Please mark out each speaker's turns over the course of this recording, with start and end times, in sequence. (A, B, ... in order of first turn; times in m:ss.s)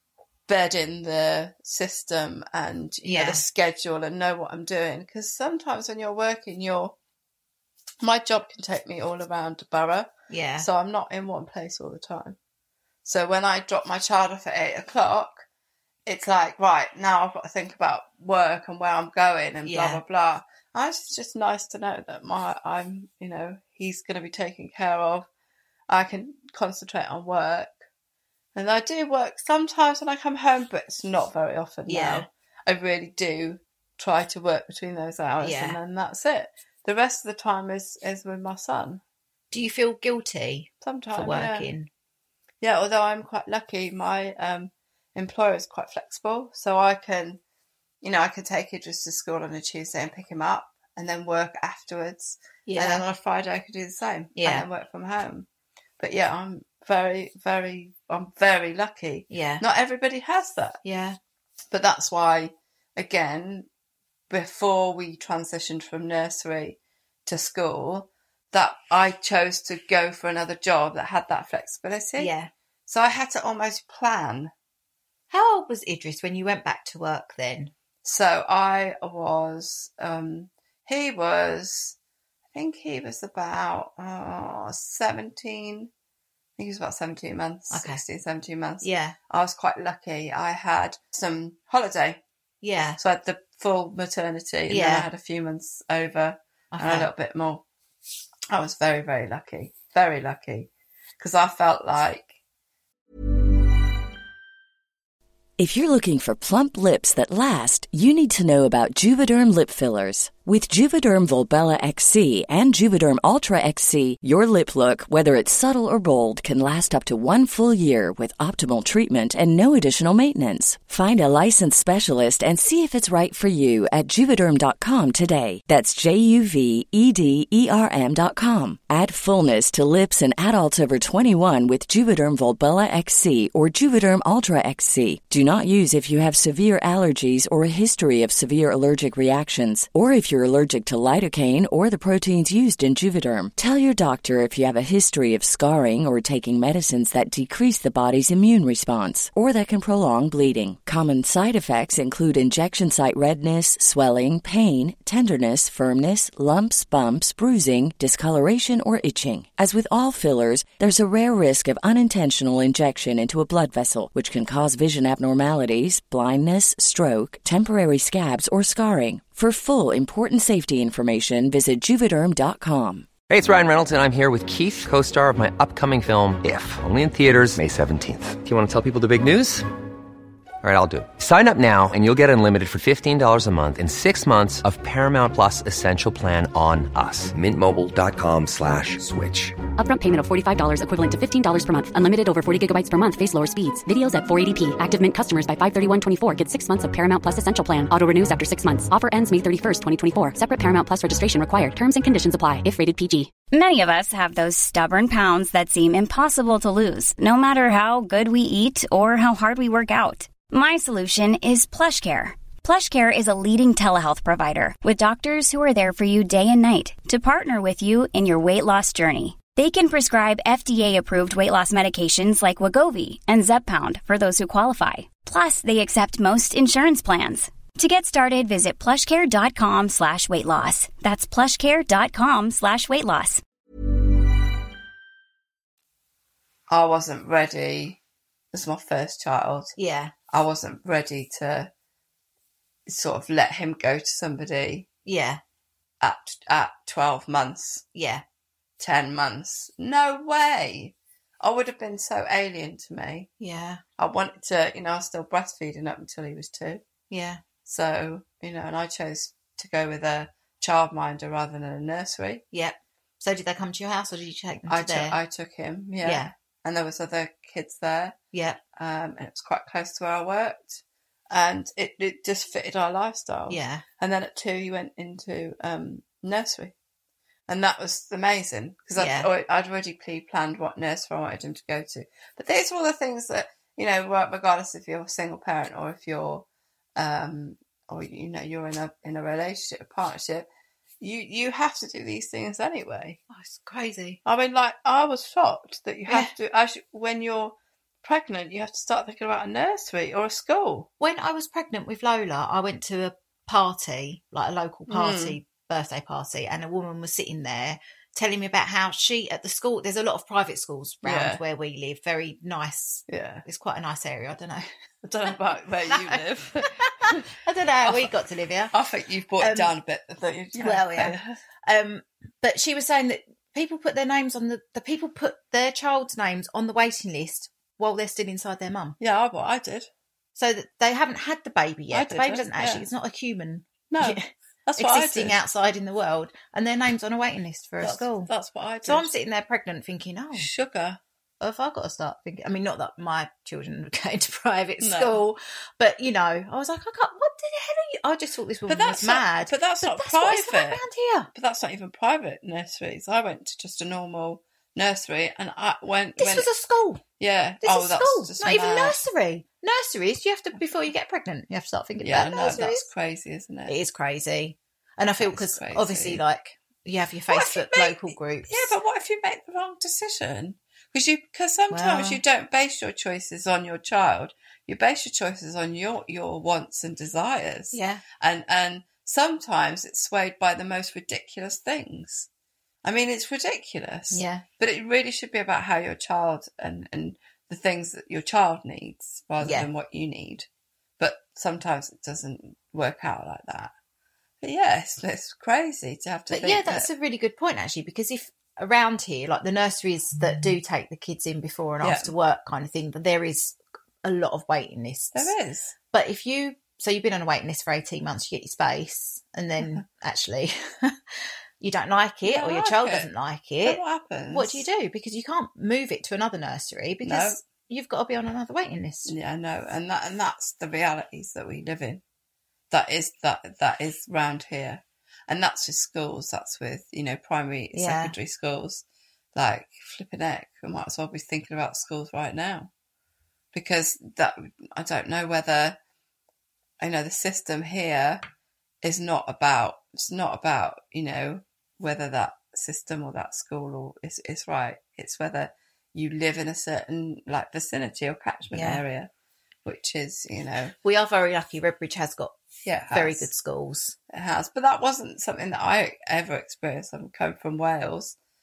0:00.5-0:07.0 A
0:03.0-0:03.4 B
0:08.0-0:12.4 A
0:10.3-0:10.7 B
0:13.0-0:15.4 A
0:16.1-0:25.3 A
0:19.6-0:20.0 B
0:25.9-0:27.8 A
0:28.6-0:39.0 A
0:31.9-0:32.3 B
0:35.4-0:35.8 B
0:39.5-0:41.9 B
0:40.8-0:41.7 A
0:42.6-0:47.4 A
0:48.0-0:55.5 A
0:52.7-0:53.0 B
0:54.4-0:54.6 B
0:56.0-1:00.8 A
0:59.3-0:59.6 B
1:00.8-1:01.2 B
1:01.7-1:03.7 A
1:04.3-1:12.3 A
1:12.2-1:12.5 B
1:12.9-1:14.5 A
1:15.3-1:17.7 B
1:18.0-1:22.0 A
1:22.5-1:25.9 A
1:26.6-1:32.2 A
1:27.7-1:28.0 B
1:28.8-1:29.2 B
1:32.6-1:33.0 B
1:33.0-1:37.6 A
1:34.7-1:35.1 B
1:36.7-1:37.1 B
1:38.5-1:42.4 A
1:45.6-2:53.1 C
2:53.3-2:59.7 D
3:00.6-3:09.6 D
3:09.7-3:23.3 E
3:23.5-3:53.4 F
3:56.7-3:58.0 A
3:58.5-3:59.8 A
3:59.8-4:00.1 B
4:00.3-4:01.7 A
4:02.9-4:04.9 A
4:05.1-4:05.4 B
4:06.0-4:07.8 A
4:08.0-4:08.2 B
4:08.8-4:13.3 A
4:13.4-4:13.8 B
4:14.0-4:16.8 A
4:17.1-4:17.4 B
4:17.6-4:22.4 A
4:22.5-4:25.2 B
4:24.7-4:28.2 A
4:26.0-4:26.3 B
4:28.3-4:28.6 B
4:28.8-4:36.7 A
4:33.5-4:33.8 B
4:37.5-4:46.5 A
4:39.0-4:39.3 B
4:47.0-4:50.5 A
4:51.0-4:53.2 A
4:53.3-4:54.2 B
4:54.2-5:00.9 A
4:56.1-4:56.3 B
5:01.0-5:14.7 B
5:04.9-5:05.4 A
5:11.0-5:11.4 A
5:13.1-5:13.4 A
5:15.0-5:17.3 A
5:15.9-5:18.7 B
5:18.7-5:21.4 A
5:19.4-5:19.7 B
5:20.6-5:29.0 B
5:29.0-5:29.9 A
5:30.4-5:38.3 B
5:31.9-5:32.9 A
5:33.9-5:35.4 A
5:37.8-5:39.1 A
5:38.8-5:40.5 B
5:40.4-5:41.0 A
5:41.4-5:51.3 B
5:44.8-5:45.2 A
5:48.7-5:50.8 A
5:51.3-5:56.5 A
5:56.2-5:57.0 B
5:57.2-5:59.0 A
5:57.6-6:02.9 B
6:02.0-6:03.8 A
6:03.7-6:08.8 B
6:05.2-6:06.2 A
6:07.3-6:22.3 A
6:11.7-6:12.2 B
6:17.7-6:18.0 B
6:22.8-6:30.5 A
6:24.1-6:24.4 B
6:29.4-6:29.7 B
6:31.0-6:33.7 A
6:34.4-6:36.9 A
6:36.3-6:45.3 B
6:41.8-6:42.1 A
6:45.1-6:45.7 A
6:45.9-6:51.0 B
6:51.6-6:59.1 B
6:52.2-6:53.1 A
6:53.6-6:54.6 A
6:57.0-6:57.4 A
6:59.1-7:02.0 A
7:02.7-7:08.8 A
7:07.7-7:08.2 B
7:09.4-7:12.7 A
7:13.5-7:15.8 A
7:16.8-7:18.2 A
7:18.8-7:29.1 A
7:28.5-7:28.8 B
7:29.6-7:30.8 A
7:30.8-7:32.4 B
7:32.6-7:33.3 A
7:32.9-7:34.0 B
7:34.1-7:38.2 A